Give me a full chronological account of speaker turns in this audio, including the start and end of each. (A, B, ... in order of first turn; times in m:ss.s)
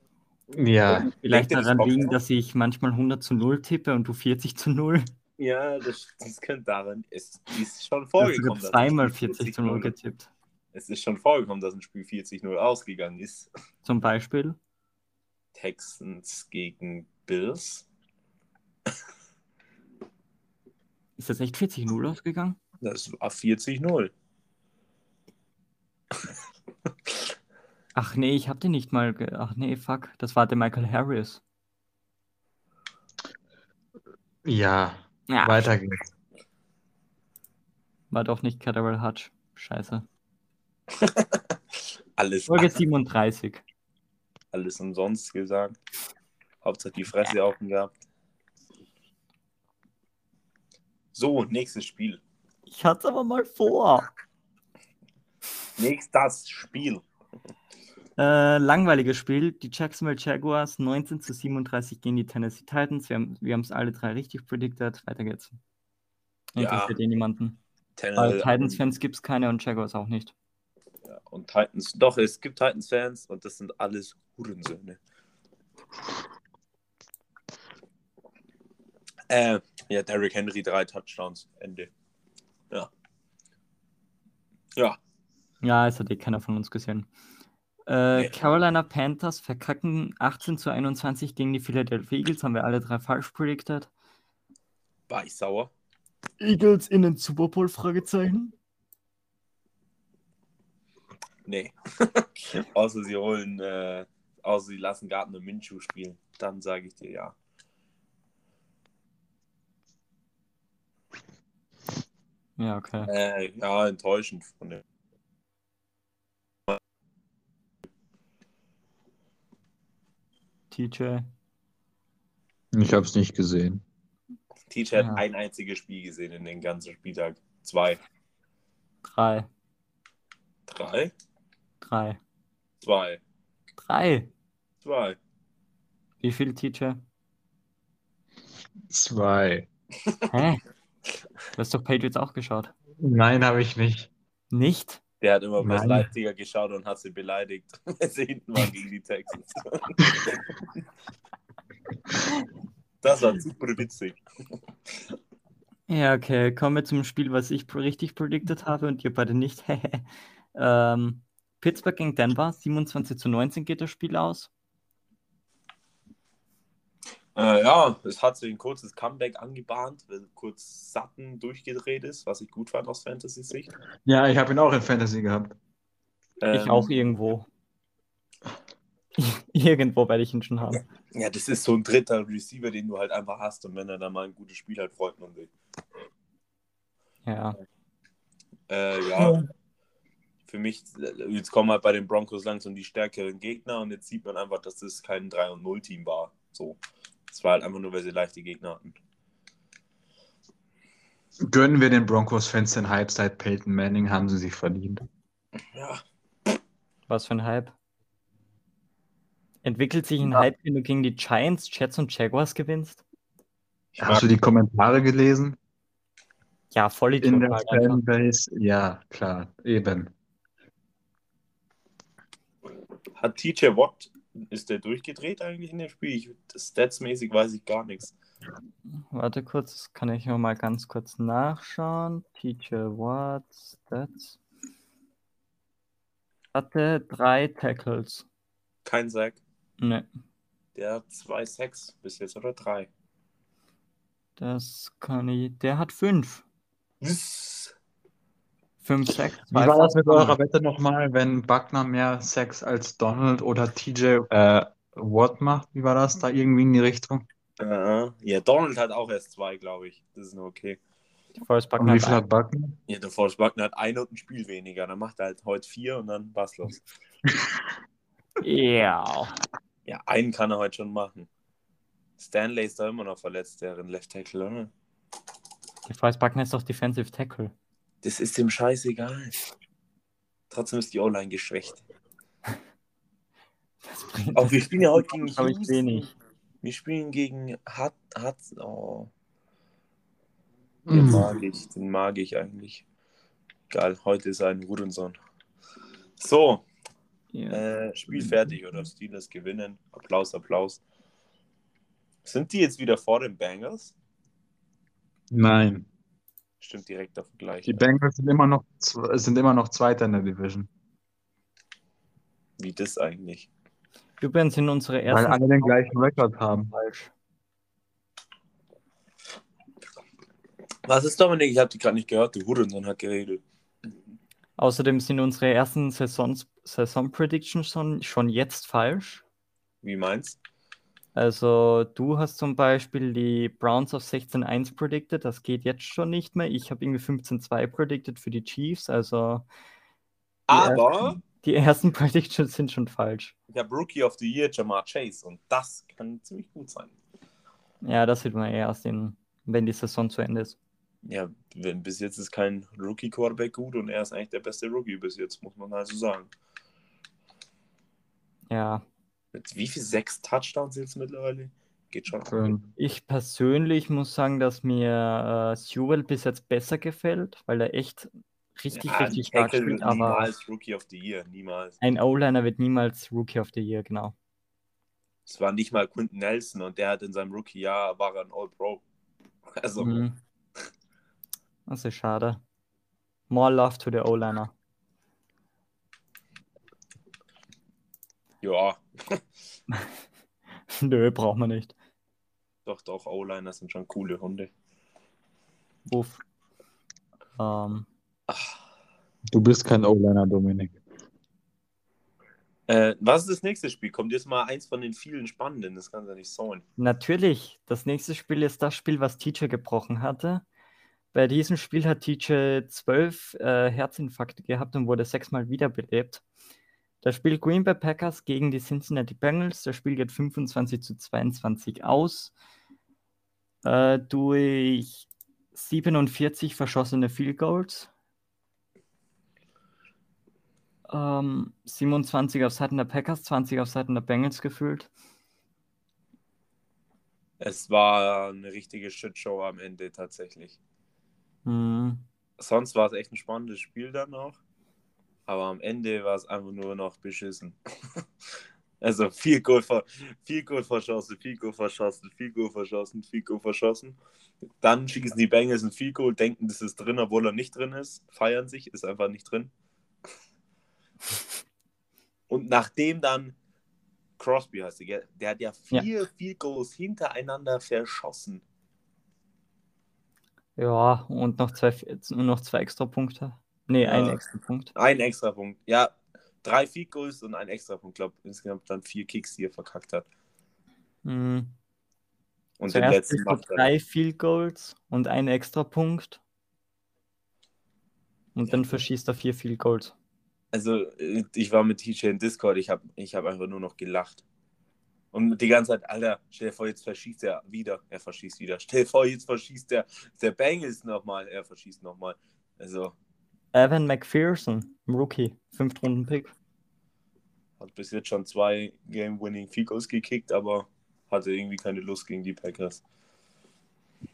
0:00.5-0:01.1 A
0:00.9-0:05.1 B
0:01.2-0:02.2 C
0:05.4-0:09.9 C
0:08.2-0:10.3 B
0:10.7-0:13.5 C
0:13.8-0:14.6 B
0:15.5-0:17.8 C
0:21.2-0:22.6 B
0:22.8-0:24.1 C
0:27.9-0:31.4 B
0:34.4-0:36.0 A
0:35.3-0:35.6 B
0:38.1-0:40.0 B
0:41.0-0:41.4 C
0:42.2-0:42.8 C
0:42.5-0:43.6 B
0:44.5-0:45.8 C
0:46.6-0:47.9 C
0:51.1-0:52.2 C
0:52.7-0:54.1 B
0:55.8-0:57.0 C
0:58.2-1:05.6 B
1:06.6-1:07.6 B
1:06.6-1:06.9 C
1:08.0-1:08.8 C
1:08.2-1:10.3 B
1:11.0-1:15.0 C
1:19.3-1:21.9 C
1:25.6-1:27.1 B
1:27.9-1:33.9 B
1:35.1-1:35.7 C
1:36.4-1:38.5 B
1:41.4-1:47.3 C
1:52.6-1:53.1 B
1:53.1-1:54.8 C
2:00.7-2:01.3 B
2:02.7-2:03.8 A
2:04.7-2:08.0 C
2:05.0-2:05.2 B
2:09.0-2:09.5 B
2:10.7-2:11.1 C
2:11.8-2:12.2 B
2:12.8-2:13.2 C
2:13.8-2:14.3 B
2:14.8-2:15.2 C
2:16.2-2:17.0 B
2:18.9-2:19.7 A
2:20.3-2:20.6 B
2:21.5-2:22.7 B
2:23.0-2:24.1 A
2:24.5-2:25.0 B
2:25.2-2:30.5 C
2:25.6-2:26.1 A
2:33.0-2:34.2 C
2:35.9-2:44.5 B
2:47.3-2:53.7 C
2:54.0-2:55.5 A
2:56.4-2:56.9 C
2:56.5-2:57.5 B
2:59.2-3:00.8 B
3:01.1-3:05.5 C
3:07.2-3:07.6 B
3:08.7-3:09.4 C
3:10.4-3:19.0 C
3:21.5-3:25.0 A
3:25.7-3:26.0 C
3:27.1-3:27.7 B
3:29.6-3:33.0 B
3:33.9-3:34.3 C
3:34.0-3:35.6 A
3:36.7-3:38.0 B
3:37.2-3:40.1 A
3:43.2-3:48.1 C
3:49.1-3:54.4 B
3:56.5-3:58.2 B
3:58.8-3:59.4 C
3:59.8-4:00.1 B
4:00.7-4:02.9 C
4:04.4-4:06.4 B
4:07.0-4:07.7 C
4:08.8-4:10.4 B
4:09.5-4:17.2 A
4:17.6-4:20.8 C
4:21.4-4:22.2 B
4:21.8-4:22.8 A
4:22.9-4:26.8 C
4:27.3-4:27.6 A
4:28.4-4:29.4 B
4:29.8-4:31.3 C
4:32.2-4:34.7 C
4:35.9-4:37.5 B
4:38.0-4:39.4 C
4:40.5-4:41.8 C
4:43.8-4:44.6 B
4:44.3-4:46.0 C
4:45.3-4:46.1 B
4:46.6-4:49.1 C
4:50.9-4:51.3 A
4:50.9-4:52.8 C
4:53.7-4:55.2 C
4:56.2-4:56.6 C
4:57.3-4:57.6 B
4:57.5-5:00.8 C
5:02.2-5:03.9 C
5:05.3-5:05.9 A
5:06.6-5:07.8 C
5:07.6-5:10.7 A
5:12.6-5:13.5 C
5:14.2-5:17.1 B
5:15.1-5:16.7 A
5:20.8-5:23.4 C
5:24.6-5:29.2 B
5:29.8-5:30.4 C
5:31.1-5:39.4 B
5:40.5-5:41.2 C
5:40.5-5:43.3 B
5:43.5-5:46.9 C
5:47.8-5:50.6 B
5:51.0-5:56.3 C
5:58.5-5:58.8 B
5:59.3-6:02.5 C
6:02.3-6:02.7 A
6:02.8-6:10.3 B
6:08.7-6:11.8 C
6:11.8-6:14.1 B
6:15.2-6:18.8 C
6:19.6-6:20.0 C
6:19.8-6:20.2 B
6:21.7-6:22.4 B
6:23.3-6:24.5 B
6:28.4-6:29.2 C
6:30.7-6:31.7 B
6:32.6-6:34.5 C
6:35.8-6:36.2 B
6:37.4-6:37.9 B
6:38.3-6:38.6 C
6:39.3-6:40.8 A
6:42.7-6:46.6 C
6:46.8-6:50.4 B
6:51.1-6:56.2 B
6:57.0-7:02.3 B
7:03.6-7:07.9 B
7:10.9-7:14.9 B
7:17.4-7:20.6 C
7:21.4-7:22.0 B
7:22.4-7:24.4 C
7:25.3-7:27.6 C
7:28.8-7:34.0 C
7:34.6-7:39.5 C
7:42.3-7:43.3 C
7:44.2-7:48.4 C
7:50.6-7:54.7 B
7:53.8-7:54.2 C
7:54.7-8:00.0 C
8:01.0-8:01.5 B
8:02.6-8:03.7 C
8:02.7-8:06.2 B
8:08.3-8:09.9 B
8:10.5-8:14.2 C
8:15.1-8:22.9 C
8:23.5-8:26.3 B
8:27.6-8:32.8 C